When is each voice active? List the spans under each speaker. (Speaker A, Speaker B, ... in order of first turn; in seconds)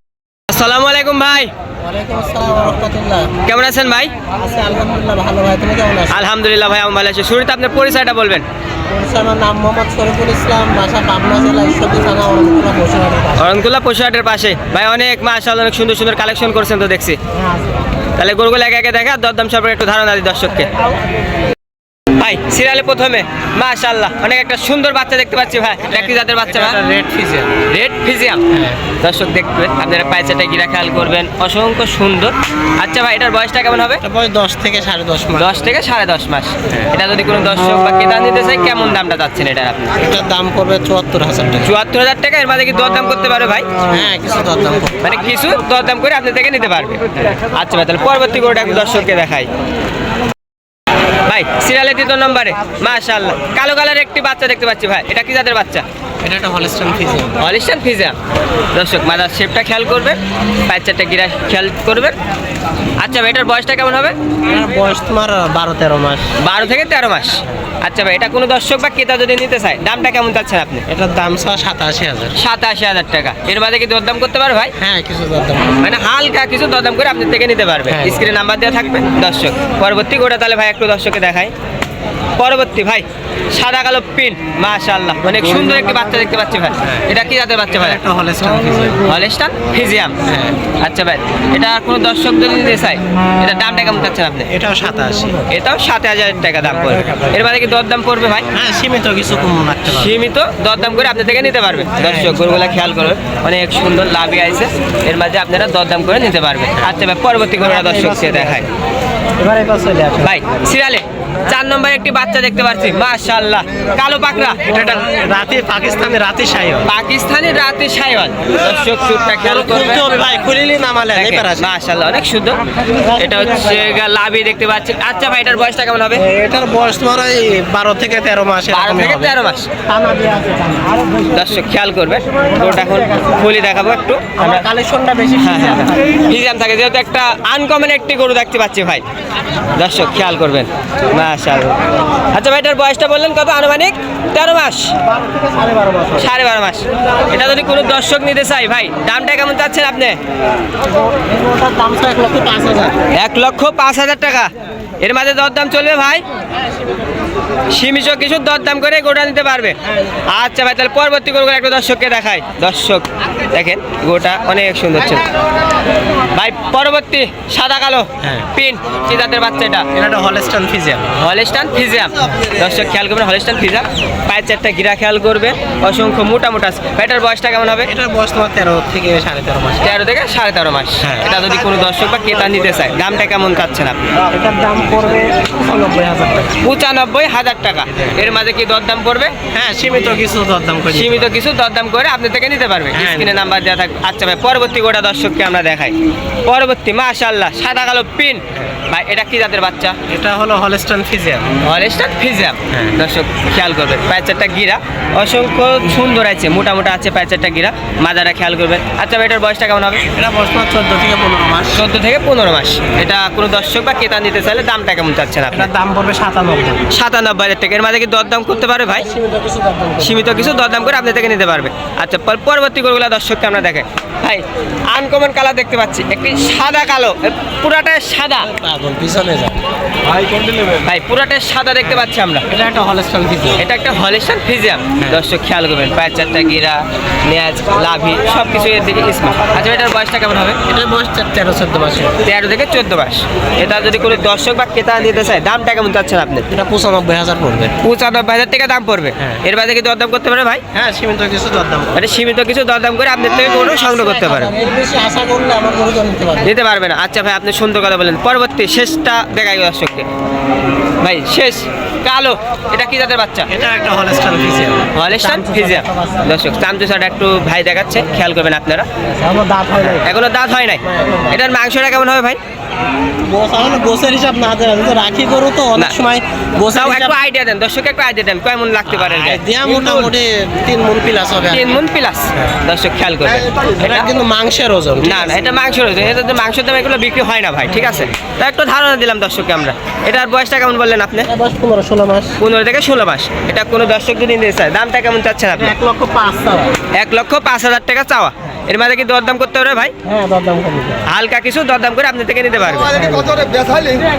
Speaker A: 0.5-1.5, 3.5-4.1, 6.1-8.4, 13.4-17.2, 18.2-20.7, 22.2-26.8, 27.7-28.4, 29.0-34.0, 35.4-39.9, 41.6-43.7, 45.0-49.5, 51.3-55.8, 57.4-58.1, 58.7-62.1, 63.0-64.2, 66.4-70.8, 72.4-74.7, 75.8-81.5, 82.4-88.0, 89.0-90.2, 90.8-94.5, 95.5-98.5, 99.9-108.7, 110.2-115.0, 116.8-120.1, 121.1-122.6, 123.2-126.2, 128.7-129.7, 131.3-134.7, 135.4-139.0, 139.8-141.8, 142.3-144.9, 146.2-150.2, 153.1-154.5, 155.0-156.2, 157.7-165.2, 166.3-169.9, 171.2-177.9, 179.8-184.1, 186.6-189.3, 190.9-195.9, 196.5-200.0, 201.6-210.0, 211.7-215.7, 216.9-219.1, 220.0-228.5, 230.8-232.4, 233.6-240.6, 242.2-246.5, 247.8-250.6, 251.9-254.5, 256.4-260.1, 261.0-263.5, 264.9-268.9, 269.9-272.4, 276.7-280.1, 281.5-284.1, 285.0-291.3, 292.4-295.8, 297.0-299.9, 301.1-302.9
Speaker B: 1.8-3.3, 4.4-6.2, 8.9-13.5, 17.3-17.8, 20.6-21.0, 25.9-27.6, 28.5-28.8, 34.0-35.6, 40.0-41.7, 43.9-44.9, 56.2-57.3, 64.5-66.3, 70.9-72.4, 74.8-75.8, 77.9-78.2, 85.3-85.8, 86.8-87.1, 87.7-89.0, 90.3-90.6, 94.5-95.5, 98.5-100.2, 102.0-102.6, 107.6-108.7, 109.4-110.4, 114.6-116.9, 119.4-121.7, 123.0-124.0, 126.2-129.3, 129.9-131.3, 134.4-136.2, 145.1-146.3, 150.8-153.0, 156.7-157.0, 159.8-160.2, 168.2-168.5, 169.9-171.1, 177.9-179.9, 181.0-181.5, 184.2-186.6, 187.9-188.2, 189.5-191.3, 192.9-193.4, 200.1-201.5, 202.7-203.0, 210.1-211.8, 215.5-216.8, 218.9-220.5, 228.4-229.6, 231.9-233.6, 240.7-242.2, 246.5-247.7, 250.7-252.1, 253.7-256.5, 263.5-266.3, 269.1-270.1, 270.8-271.4, 273.3-277.2, 278.9-281.8, 283.8-285.4, 287.7-288.1, 291.3-292.4, 295.5-296.7, 300.1-301.1, 302.9-303.9